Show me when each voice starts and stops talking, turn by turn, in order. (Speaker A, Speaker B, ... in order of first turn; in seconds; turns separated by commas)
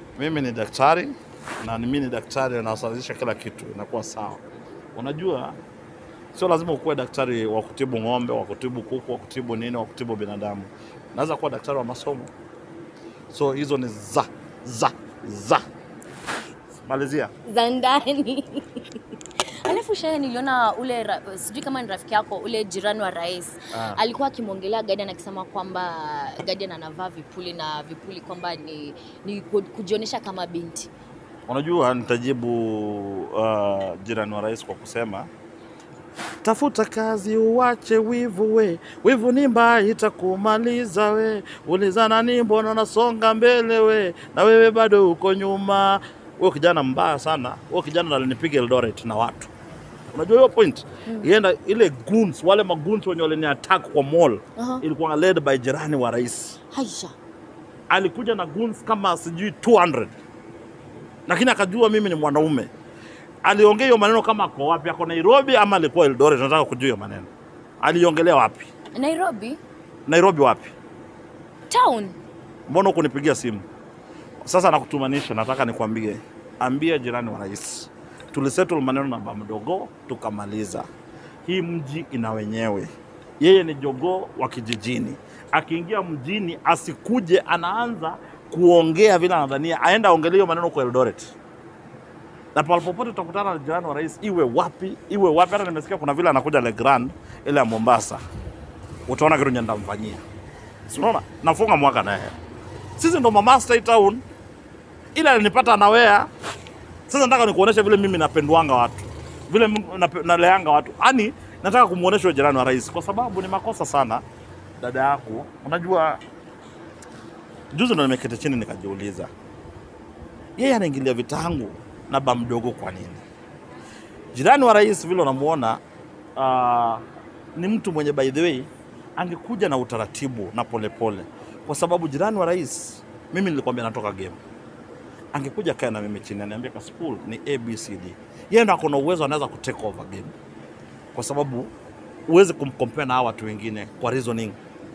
Speaker A: 0.2-4.4, Speaker A: 4.9-5.5, Speaker A: 6.3-12.3, Speaker A: 13.3-15.6, Speaker A: 16.8-17.3, Speaker B: 17.4-18.9, Speaker B: 19.6-30.9, Speaker A: 23.7-24.0, Speaker A: 31.5-35.3, Speaker A: 36.4-49.5, Speaker A: 50.1-56.6, Speaker B: 54.6-54.8, Speaker B: 56.7-57.1, Speaker A: 57.9-60.1, Speaker A: 61.3-62.7, Speaker A: 63.4-67.3, Speaker A: 67.8-68.7, Speaker B: 68.9-69.6, Speaker A: 70.1-70.7, Speaker B: 71.7-72.2, Speaker A: 72.7-73.7, Speaker A: 74.4-80.8, Speaker A: 81.5-91.3, Speaker A: 92.5-98.2, Speaker A: 99.1-100.2, Speaker A: 100.9-102.3, Speaker A: 103.0-104.2, Speaker A: 105.1-106.3, Speaker A: 107.1-114.2, Speaker A: 114.8-116.2, Speaker A: 117.7-119.3, Speaker A: 120.6-123.2, Speaker A: 124.3-125.8, Speaker A: 126.4-127.0, Speaker A: 127.5-134.4, Speaker A: 135.3-140.3, Speaker A: 141.1-141.7, Speaker A: 142.3-144.6